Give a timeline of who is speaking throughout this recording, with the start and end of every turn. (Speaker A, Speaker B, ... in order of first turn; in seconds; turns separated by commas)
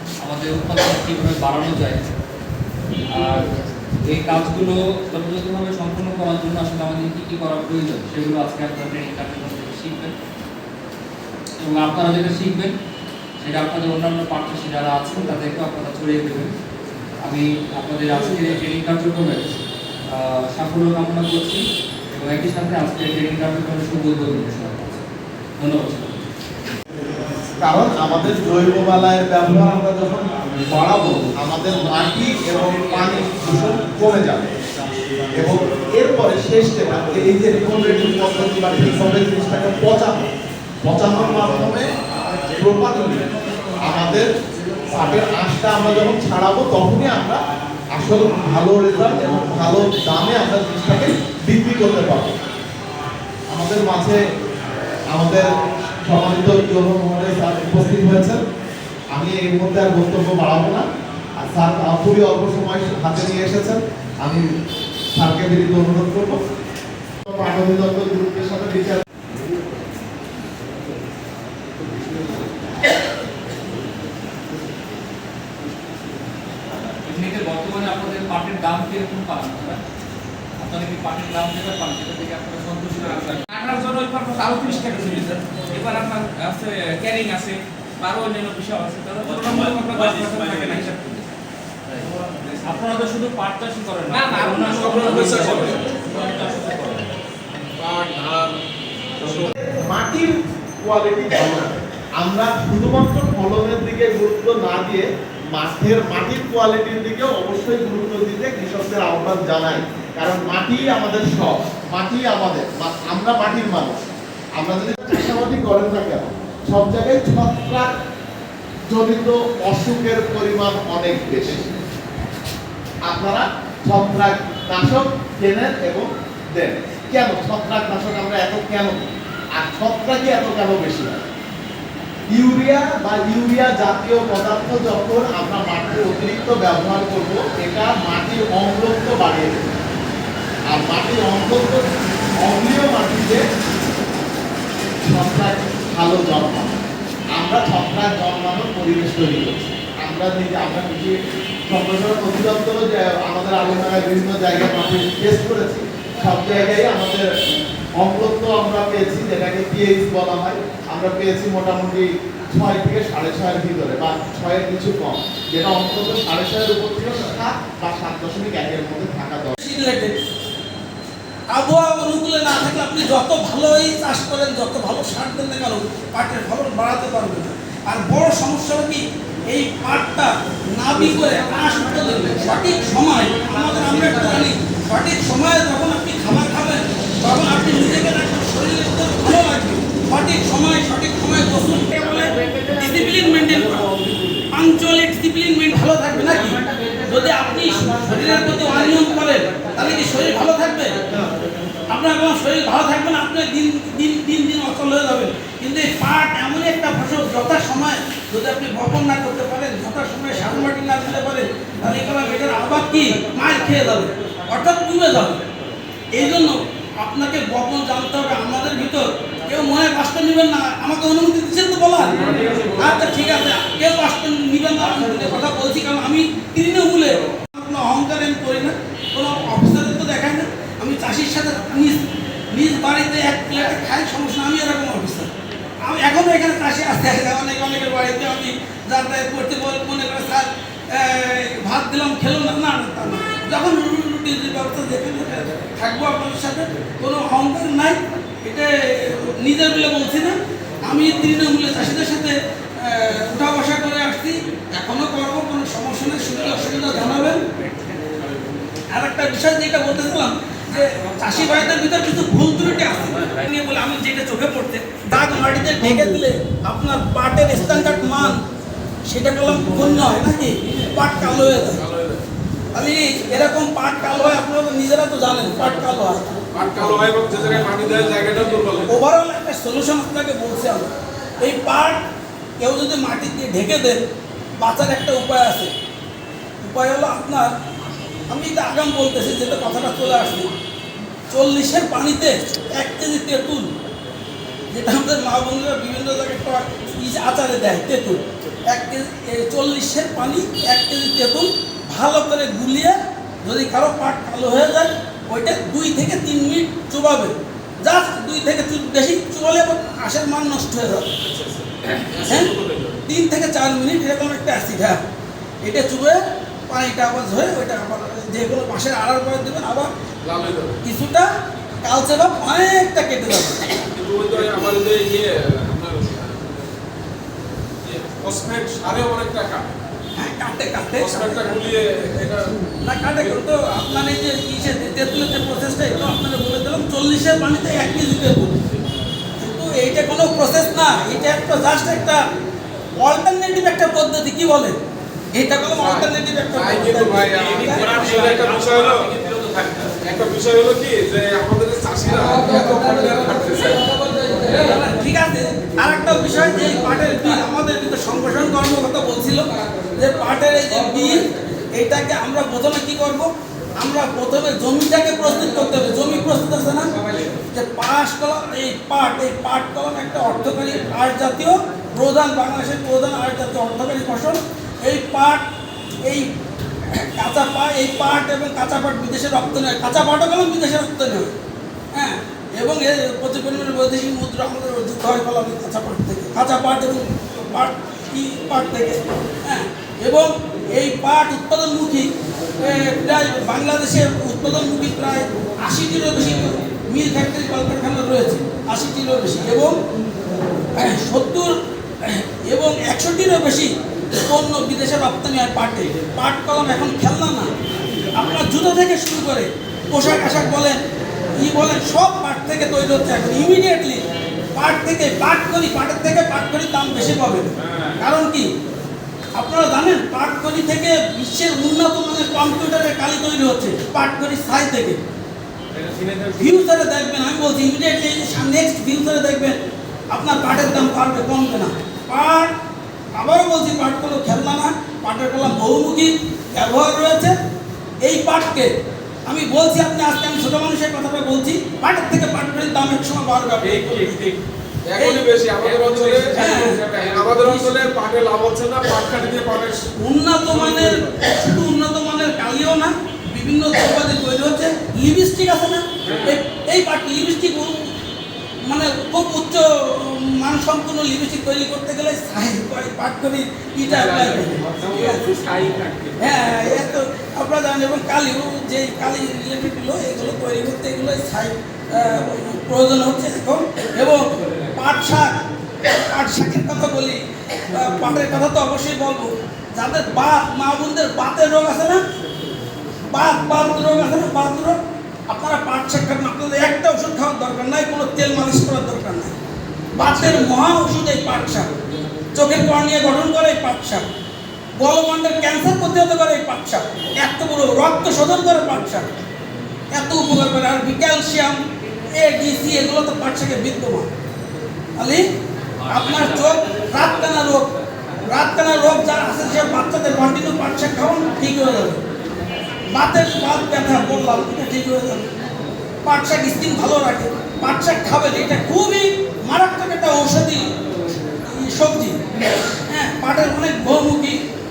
Speaker A: 0.2-2.0, Speaker A: 3.1-3.5, Speaker A: 4.0-10.2, Speaker A: 11.6-12.8, Speaker A: 13.4-16.5, Speaker A: 17.2-19.6, Speaker A: 20.1-25.1, Speaker A: 25.6-26.3, Speaker B: 27.6-34.5, Speaker B: 35.4-40.3, Speaker B: 40.8-41.9, Speaker B: 42.5-44.3, Speaker B: 44.9-52.4, Speaker B: 53.5-54.2, Speaker B: 55.1-58.4, Speaker B: 59.1-60.9, Speaker B: 61.4-64.5, Speaker B: 65.1-66.4, Speaker B: 67.3-69.0, Speaker A: 77.0-79.8, Speaker A: 80.6-83.7, Speaker C: 83.5-91.1, Speaker A: 89.2-91.2, Speaker A: 92.6-97.0, Speaker C: 94.1-95.9, Speaker D: 94.6-96.4, Speaker D: 97.8-98.6, Speaker D: 99.2-99.5, Speaker B: 99.5-114.0, Speaker B: 114.5-117.9, Speaker B: 118.9-121.8, Speaker B: 123.0-131.2, Speaker B: 132.3-139.7, Speaker B: 140.7-141.9, Speaker B: 142.4-143.4, Speaker B: 145.1-146.8, Speaker B: 147.3-157.3, Speaker B: 158.0-169.6, Speaker E: 169.6-170.2, Speaker E: 171.5-193.9, Speaker E: 194.5-201.1, Speaker E: 201.9-215.4, Speaker E: 216.1-235.3, Speaker D: 222.1-223.2, Speaker E: 235.8-257.4, Speaker E: 258.9-268.4, Speaker E: 269.1-271.8, Speaker D: 271.7-272.2, Speaker E: 272.8-276.4, Speaker D: 276.5-278.9, Speaker E: 278.9-282.0, Speaker E: 282.6-284.0, Speaker E: 284.6-285.7, Speaker E: 286.6-287.5, Speaker E: 288.3-290.5, Speaker E: 291.3-293.7, Speaker E: 294.7-311.1, Speaker D: 311.2-313.0, Speaker E: 312.2-312.5, Speaker E: 313.1-315.0, Speaker E: 315.6-319.9, Speaker D: 320.2-320.8, Speaker E: 320.8-321.3, Speaker E: 321.8-323.7, Speaker D: 323.8-326.7, Speaker D: 327.8-329.7, Speaker E: 330.2-331.6, Speaker D: 330.9-332.5, Speaker E: 332.8-338.6, Speaker E: 339.4-342.2, Speaker E: 343.0-344.8, Speaker E: 345.3-348.1, Speaker D: 345.7-349.1, Speaker C: 347.4-349.9, Speaker D: 350.0-353.9, Speaker E: 352.2-366.9, Speaker C: 367.1-367.4, Speaker E: 367.5-375.4, Speaker E: 376.1-376.3, Speaker E: 376.9-381.3, Speaker E: 381.9-399.8, Speaker E: 400.8-407.5, Speaker E: 408.1-410.8, Speaker E: 411.4-418.5, Speaker E: 419.4-425.0, Speaker C: 425.8-426.3, Speaker E: 426.4-429.6, Speaker E: 430.1-432.5, Speaker E: 433.2-437.4, Speaker E: 438.0-438.7, Speaker E: 439.3-444.1, Speaker C: 443.7-444.4, Speaker D: 443.7-444.2, Speaker D: 444.9-449.9, Speaker E: 445.0-445.3, Speaker C: 445.6-447.2, Speaker E: 446.3-447.8, Speaker E: 450.0-457.9, Speaker D: 450.4-451.2, Speaker D: 456.0-456.4, Speaker E: 458.7-465.2, Speaker D: 463.8-467.0, Speaker E: 466.2-482.0, Speaker E: 483.1-489.4, Speaker E: 489.9-491.7, Speaker D: 490.0-490.4, Speaker E: 492.3-494.1, Speaker E: 494.8-499.1, Speaker E: 499.9-501.6, Speaker E: 502.1-504.1, Speaker E: 505.0-505.2, Speaker E: 505.9-507.7, Speaker E: 508.3-512.0, Speaker E: 512.9-515.3, Speaker E: 516.0-520.7, Speaker E: 521.5-522.2, Speaker E: 522.9-524.4